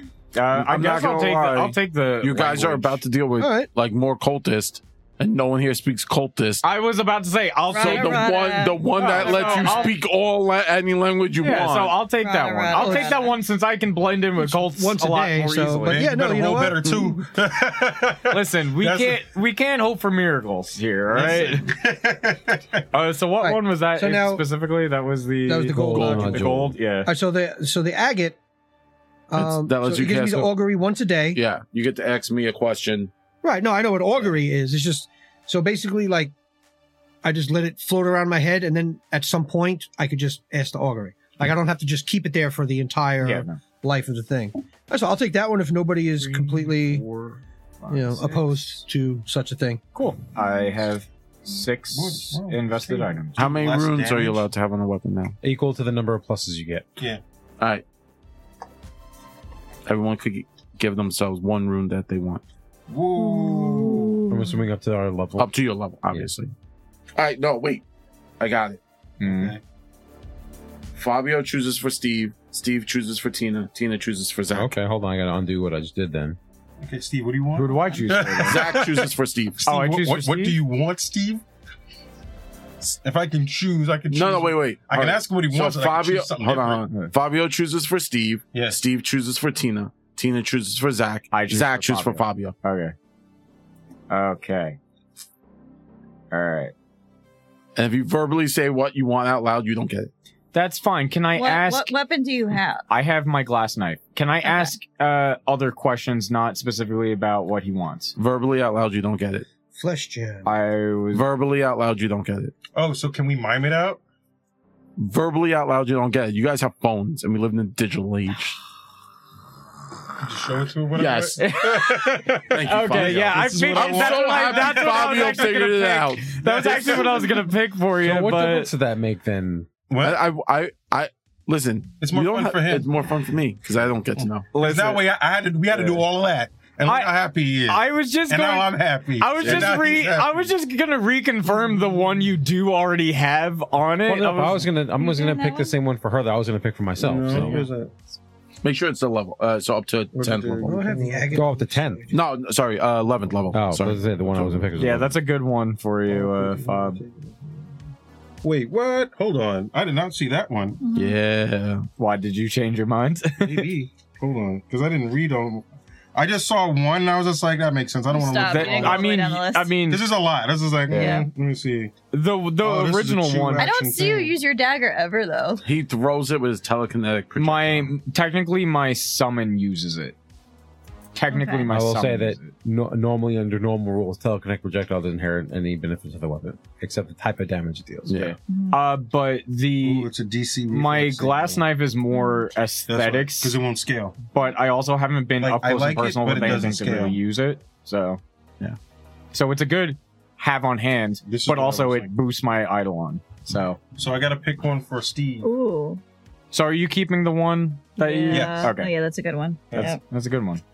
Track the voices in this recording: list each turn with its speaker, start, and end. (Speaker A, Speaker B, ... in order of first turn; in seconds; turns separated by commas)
Speaker A: 0.3-3.0, Speaker B: 0.5-6.6, Speaker C: 3.4-3.7, Speaker A: 6.6-8.3, Speaker D: 7.7-9.9, Speaker B: 7.8-12.0, Speaker A: 8.9-9.9, Speaker A: 11.4-16.1, Speaker D: 12.2-13.3, Speaker C: 12.8-13.1, Speaker C: 14.4-17.2, Speaker E: 15.8-19.2, Speaker A: 18.3-21.7, Speaker E: 21.1-22.8, Speaker A: 22.9-27.1, Speaker C: 23.4-24.4, Speaker C: 25.5-26.5, Speaker F: 25.7-26.8, Speaker C: 27.0-28.4, Speaker C: 29.3-31.4, Speaker B: 29.4-30.5, Speaker B: 31.3-33.1, Speaker C: 33.4-36.3, Speaker C: 37.2-47.0, Speaker A: 43.2-43.6, Speaker A: 46.2-48.8, Speaker C: 47.9-49.8, Speaker A: 49.9-53.4, Speaker E: 51.9-54.4, Speaker B: 53.4-55.4, Speaker F: 55.4-56.9, Speaker B: 59.9-62.4, Speaker E: 62.9-64.3, Speaker D: 63.2-64.6, Speaker F: 64.3-65.5, Speaker B: 65.4-66.5, Speaker B: 67.2-67.8, Speaker B: 68.4-68.8, Speaker A: 69.2-69.5, Speaker E: 69.2-69.6, Speaker B: 70.9-74.7, Speaker F: 74.5-76.4, Speaker E: 76.8-79.1, Speaker A: 77.5-78.6, Speaker B: 78.4-79.7, Speaker E: 79.6-81.4, Speaker A: 79.6-80.6, Speaker E: 82.8-86.9, Speaker B: 84.1-92.5, Speaker E: 88.5-88.8, Speaker A: 91.3-92.9, Speaker A: 94.1-94.8, Speaker A: 96.3-96.7, Speaker B: 97.8-100.1, Speaker A: 100.5-101.9, Speaker D: 101.3-102.8, Speaker A: 102.9-108.1, Speaker D: 104.4-104.7, Speaker B: 108.2-109.5, Speaker C: 109.7-110.5, Speaker A: 110.4-111.3, Speaker B: 111.1-112.5, Speaker E: 112.7-114.0, Speaker B: 115.0-118.6, Speaker E: 120.2-125.5, Speaker B: 120.9-121.5, Speaker A: 121.4-128.7, Speaker B: 122.5-127.0, Speaker E: 126.4-127.3, Speaker F: 128.0-129.7, Speaker E: 129.9-130.2, Speaker B: 130.0-134.5, Speaker E: 132.0-132.9, Speaker E: 134.2-140.4, Speaker A: 134.5-135.1, Speaker A: 135.7-136.0, Speaker A: 136.8-137.1, Speaker A: 137.7-144.7, Speaker B: 139.4-139.8, Speaker F: 144.1-147.6, Speaker D: 145.0-145.7, Speaker E: 147.0-147.9, Speaker B: 147.3-147.7, Speaker B: 148.6-150.8, Speaker E: 150.1-151.4, Speaker C: 150.6-152.2, Speaker F: 151.3-152.0, Speaker B: 152.1-154.8, Speaker F: 153.5-155.1, Speaker A: 154.8-157.0, Speaker E: 156.1-157.4, Speaker E: 158.4-160.8, Speaker D: 160.8-161.2, Speaker B: 160.9-161.9, Speaker A: 162.0-163.7, Speaker E: 163.4-169.1, Speaker D: 168.1-169.7, Speaker A: 168.4-170.1, Speaker E: 169.9-171.9, Speaker A: 170.9-171.2, Speaker D: 170.9-171.3, Speaker A: 172.1-173.7, Speaker E: 172.6-174.3, Speaker D: 173.6-175.6, Speaker B: 175.6-177.9, Speaker A: 177.3-180.2, Speaker A: 181.1-182.5, Speaker D: 181.3-181.7, Speaker F: 181.7-188.2, Speaker B: 188.1-188.4, Speaker A: 188.2-190.1, Speaker D: 188.5-188.8, Speaker E: 189.8-191.7, Speaker A: 190.7-193.6, Speaker E: 192.9-194.2, Speaker A: 194.3-198.2, Speaker E: 195.4-197.2, Speaker A: 199.3-203.8, Speaker E: 201.2-202.1, Speaker E: 204.0-205.5, Speaker D: 205.4-206.0, Speaker A: 206.5-208.9, Speaker D: 208.0-210.0, Speaker E: 208.3-208.7, Speaker A: 209.7-210.6